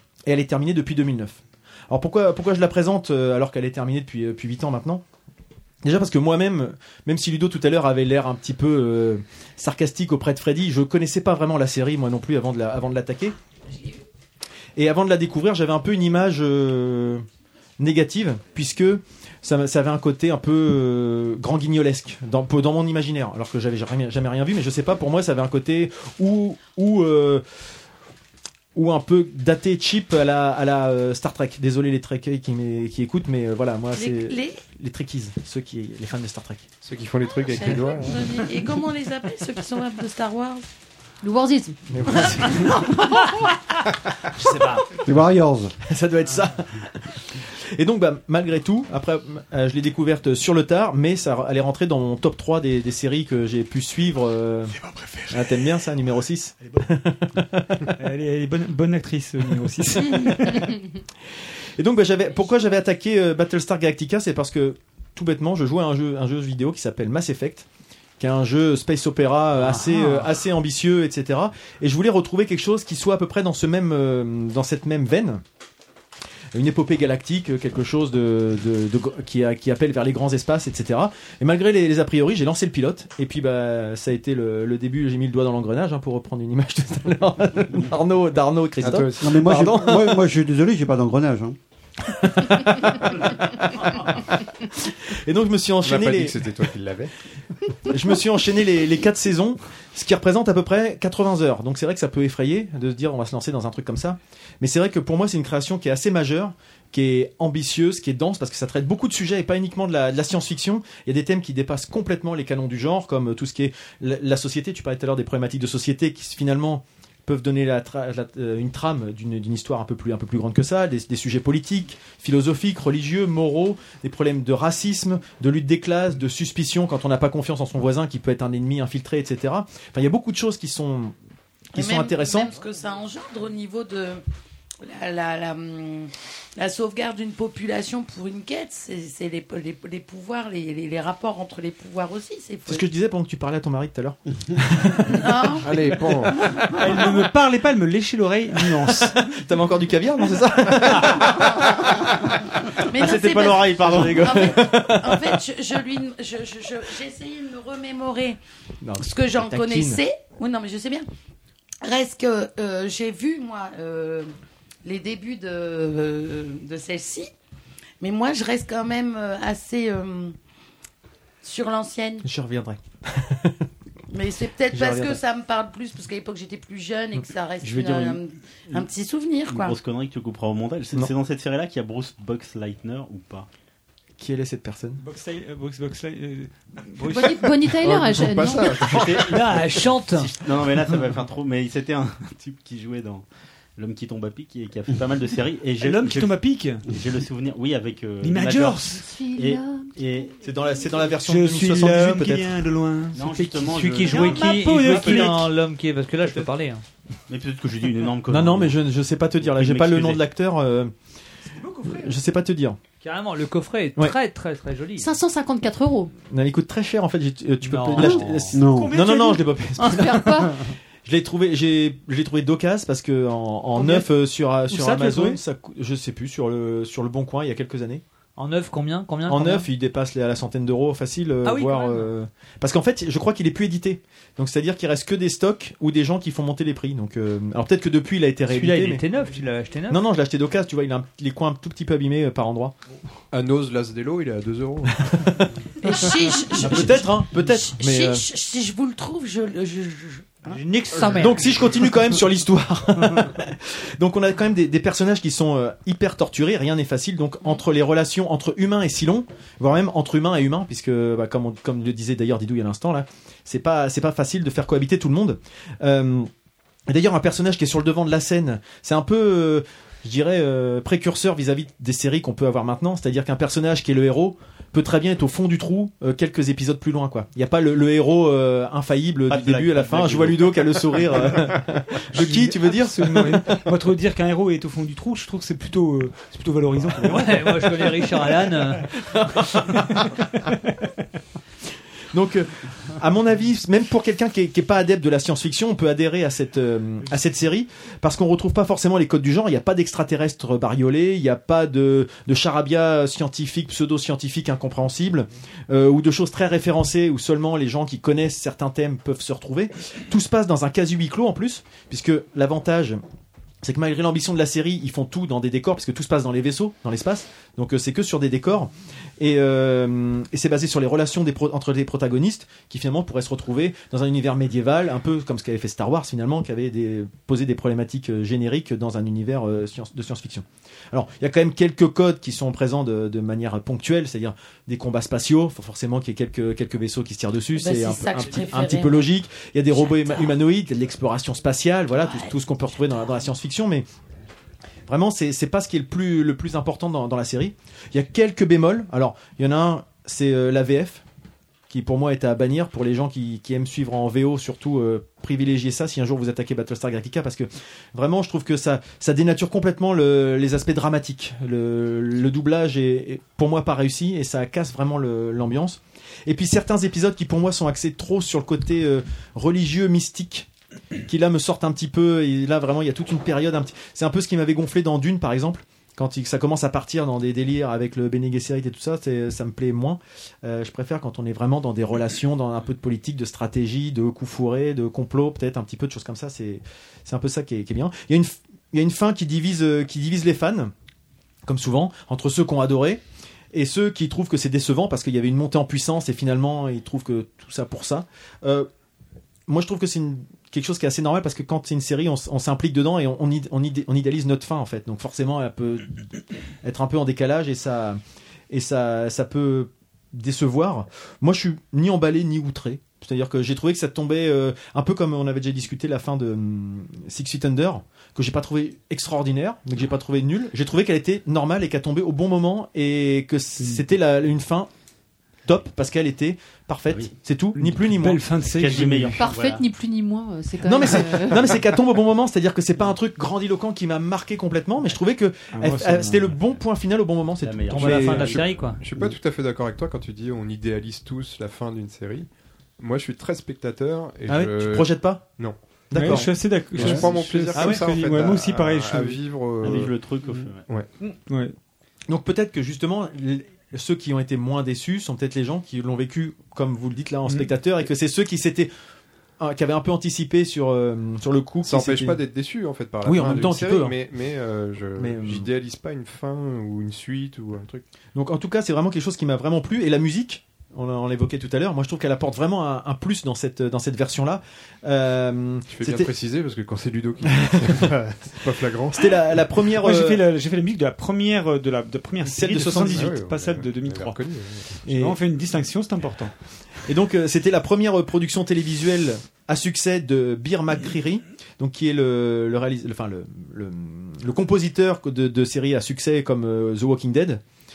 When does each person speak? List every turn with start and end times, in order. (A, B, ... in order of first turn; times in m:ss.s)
0:00.2-0:05.0 A
0:05.8-0:13.3 A
0:14.8-0:17.2 A
0:17.8-0:27.4 A
0:28.7-0:36.7 A
0:33.9-0:34.6 B
0:36.8-0:38.4 C
0:37.4-0:40.6 B
0:41.2-0:41.8 D
0:41.9-0:42.9 A
0:44.4-0:44.8 A
0:44.4-0:44.8 E
0:45.0-0:45.7 F
0:45.8-0:46.9 A
0:47.8-0:57.9 A
0:54.8-0:55.3 G
0:58.0-1:00.8 G
1:01.8-1:07.7 A
1:08.2-1:15.4 A
1:09.7-1:10.2 G
1:16.5-1:30.2 A
1:28.8-1:29.2 C
1:29.2-1:31.6 F
1:32.1-1:34.1 A
1:35.1-1:36.4 A
1:35.8-1:37.1 C
1:37.9-2:11.1 A
2:11.7-2:12.5 A
2:11.8-2:14.2 B
2:14.8-2:22.8 B
2:22.7-2:25.2 A
2:25.1-2:25.7 B
2:25.6-2:26.4 C
2:26.7-2:29.2 G
2:28.7-2:35.4 A
2:32.9-2:38.4 B
2:38.8-2:40.0 A
2:39.0-2:41.0 B
2:41.8-2:44.3 B
2:44.8-2:47.3 B
2:48.0-2:50.3 B
2:51.4-2:52.2 B
2:52.2-2:53.6 A
2:54.1-2:59.7 B
2:54.7-2:55.2 A
2:59.5-3:03.5 H
3:04.2-3:05.0 A
3:05.0-3:07.7 G
3:07.0-3:09.0 D
3:07.8-3:09.5 C
3:08.9-3:09.3 H
3:09.1-3:10.3 E
3:10.1-3:13.2 H
3:13.8-3:16.4 H
3:15.8-3:16.8 G
3:16.9-3:20.3 H
3:18.2-3:19.0 G
3:18.9-3:20.2 D
3:20.4-3:22.6 A
3:21.2-3:23.3 G
3:23.1-3:25.3 H
3:23.3-3:26.8 E
3:24.0-3:25.5 G
3:27.3-3:28.8 H
3:28.3-3:30.9 A
3:29.4-3:30.2 H
3:31.5-3:32.1 G
3:31.8-3:32.8 A
3:33.0-3:35.1 E
3:35.0-3:36.1 D
3:36.3-3:40.5 A
3:37.6-3:38.6 E
3:38.0-3:38.9 F
3:38.6-3:39.4 G
3:39.8-3:40.6 D
3:41.0-3:48.0 A
3:43.8-3:44.0 E
3:44.7-3:45.4 E
3:48.4-3:49.7 E
3:49.3-3:59.0 A
3:51.4-3:52.1 E
3:58.5-4:00.0 E
3:59.9-4:02.7 A
4:03.3-4:05.0 C
4:05.0-4:05.4 A
4:05.8-4:10.3 B
4:05.9-4:08.2 A
4:10.5-4:11.6 E
4:11.1-4:26.3 A
4:26.9-4:43.6 A
4:39.3-4:41.5 H
4:42.1-4:48.0 G
4:47.0-4:48.9 E
4:49.1-4:49.8 A
4:52.1-5:13.0 A
5:13.6-5:43.8 A
5:37.6-5:39.1 B
5:39.7-5:40.4 B
5:42.0-5:42.3 B
5:44.9-5:51.0 A
5:51.7-6:10.5 A
6:11.0-6:30.7 A
6:31.4-6:33.0 A
6:33.5-6:38.7 A
6:39.5-6:46.0 A
6:46.6-6:48.0 A
6:48.5-7:04.7 A
7:03.6-7:03.8 G
7:05.4-7:08.3 A
7:07.5-7:09.3 G
7:08.5-7:09.6 H
7:09.2-7:11.7 D
7:10.6-7:18.3 A
7:15.5-7:16.4 G
7:17.4-7:18.5 H
7:17.7-7:18.8 E
7:18.3-7:22.3 C
7:22.8-7:30.1 C
7:24.4-7:25.3 A
7:25.9-7:27.0 A
7:25.9-7:29.2 G
7:29.6-7:30.6 H
7:31.3-7:31.5 G
7:32.1-7:38.7 A
7:39.4-7:42.2 A
7:41.6-7:47.8 C
7:43.0-7:44.0 A
7:45.0-7:45.5 A
7:48.1-7:56.1 A
7:55.7-7:59.2 C
7:57.3-7:57.8 A
7:58.9-8:00.2 A
7:59.8-8:04.2 G
8:02.2-8:03.2 A
8:02.9-8:04.8 C
8:04.8-8:06.3 G
8:04.9-8:05.2 A
8:06.9-8:17.4 A